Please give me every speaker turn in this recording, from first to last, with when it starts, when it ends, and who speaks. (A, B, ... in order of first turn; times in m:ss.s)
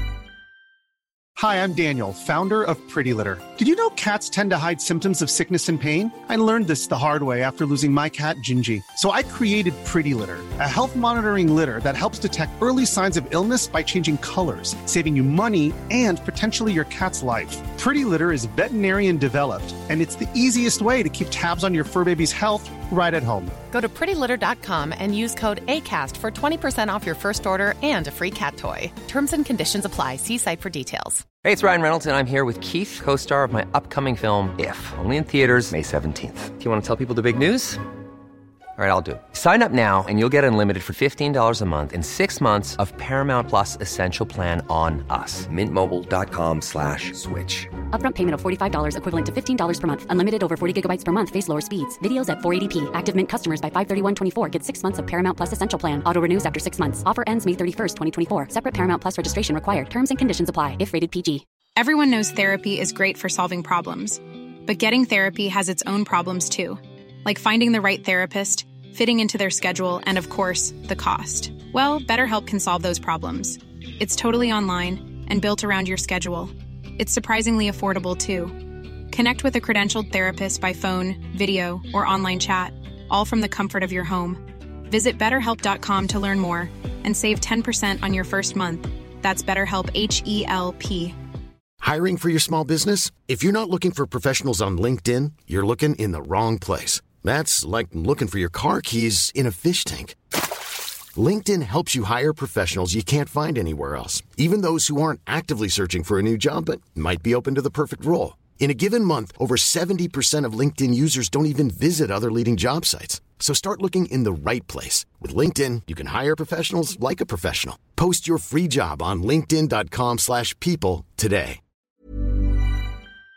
0:01.4-0:23.6 A
0:23.7-0:31.3 B
0:31.4-0:37.8 C
0:38.8-0:47.7 C
0:47.9-1:01.4 D
1:01.8-1:18.6 E
1:19.1-1:31.2 E
1:31.8-1:40.2 F
1:41.2-2:01.6 F